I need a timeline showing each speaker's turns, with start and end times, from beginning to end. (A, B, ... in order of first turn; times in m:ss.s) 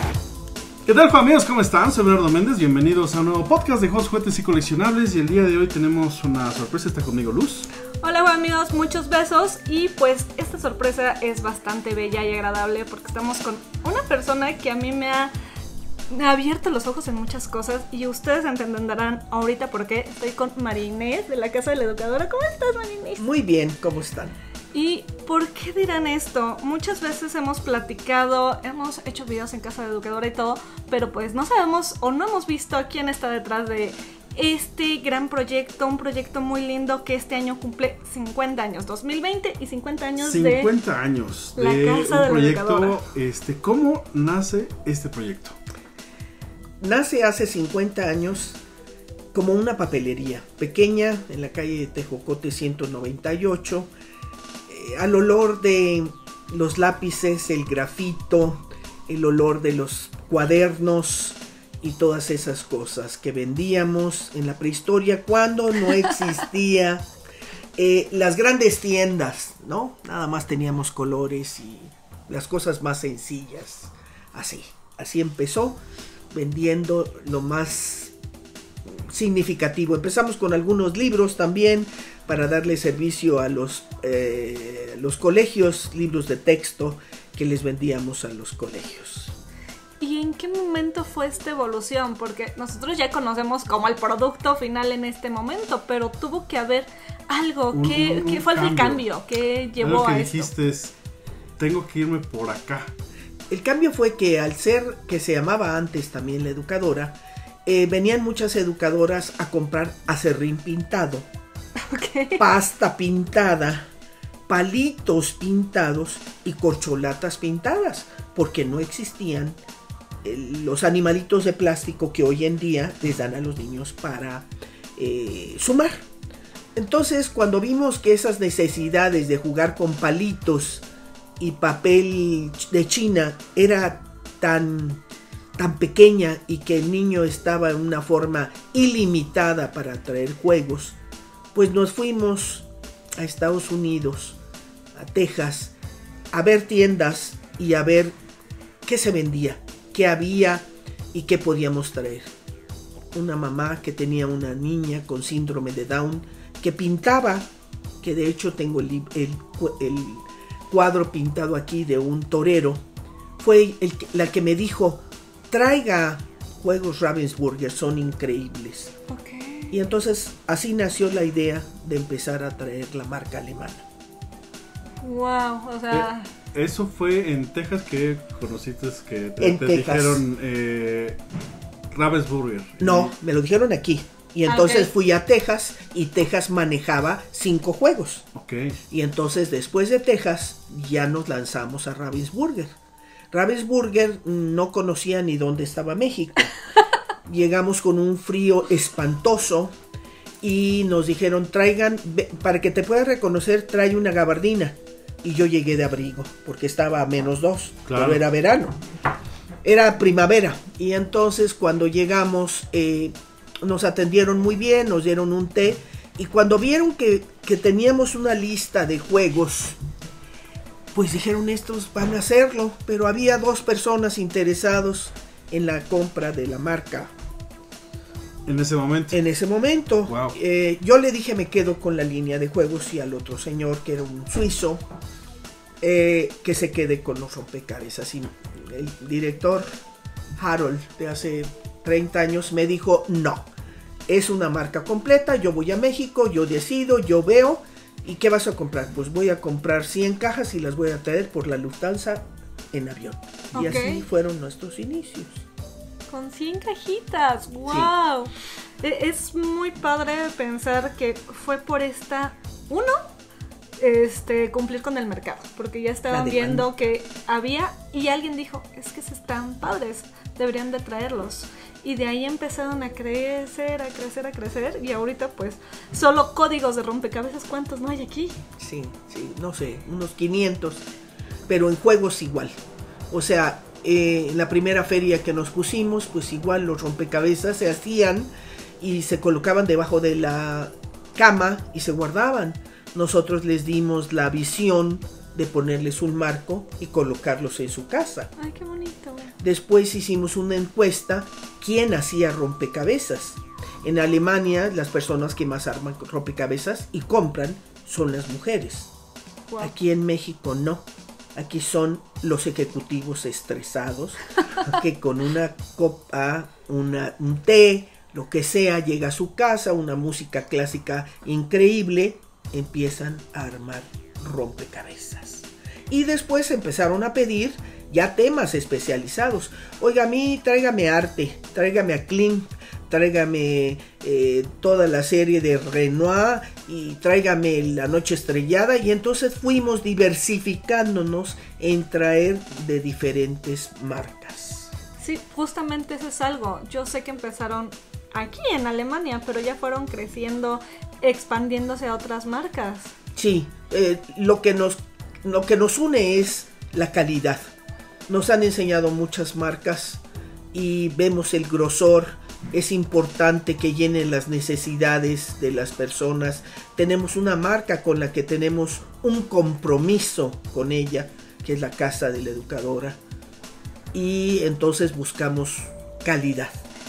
0:00.8-0:07.7 A
0:08.0-0:15.3 B
0:16.1-0:23.2 B
0:23.2-0:24.4 C
0:24.7-0:40.7 B
0:40.2-0:45.6 A
0:41.6-0:43.0 B
0:46.8-0:48.6 C
0:49.3-0:53.9 C
0:54.7-1:07.1 C
1:07.8-1:15.8 C
1:16.3-1:18.1 C
1:18.8-1:29.3 C
1:30.0-1:40.5 B
1:37.7-1:39.0 A
1:39.8-1:40.9 A
1:41.6-1:42.9 A
1:43.5-1:51.3 C
1:51.8-1:52.4 B
1:52.4-1:53.9 C
1:54.5-1:59.6 C
2:00.2-2:06.0 C
2:06.7-2:10.8 C
2:11.4-2:15.0 C
2:15.6-2:21.0 C
2:21.5-2:24.4 C
2:24.9-2:25.7 C
2:26.3-2:28.1 C
2:28.8-2:32.3 C
2:33.1-2:37.5 C
2:38.0-2:42.8 C
2:43.4-2:48.9 C
2:49.1-2:49.8 B
2:49.7-2:53.8 C
2:55.0-2:56.3 B
2:55.9-3:01.2 A
2:59.4-3:00.2 C
3:01.9-3:03.1 A
3:02.8-3:08.2 C
3:04.4-3:04.9 B
3:08.3-3:08.8 A
3:08.9-3:12.7 C
3:13.3-3:16.5 C
3:17.2-3:19.7 C
3:20.4-3:28.8 C
3:27.8-3:28.2 A
3:29.6-3:39.8 C
3:40.9-3:47.1 C
3:48.4-3:49.2 A
3:49.1-3:54.8 C
3:50.1-3:50.4 A
3:55.8-3:59.7 C
4:00.4-4:03.5 C
4:04.1-4:15.4 C
4:13.5-4:14.0 B
4:16.1-4:23.0 B
4:23.8-4:38.4 B
4:26.1-4:26.7 C
4:38.6-4:40.8 C
4:41.5-4:58.3 C
4:58.4-4:59.3 B
4:59.4-5:08.9 C
5:09.6-5:44.7 C
5:45.0-5:52.9 B
5:53.2-5:57.5 C
5:58.1-6:13.0 C
6:13.9-6:16.6 C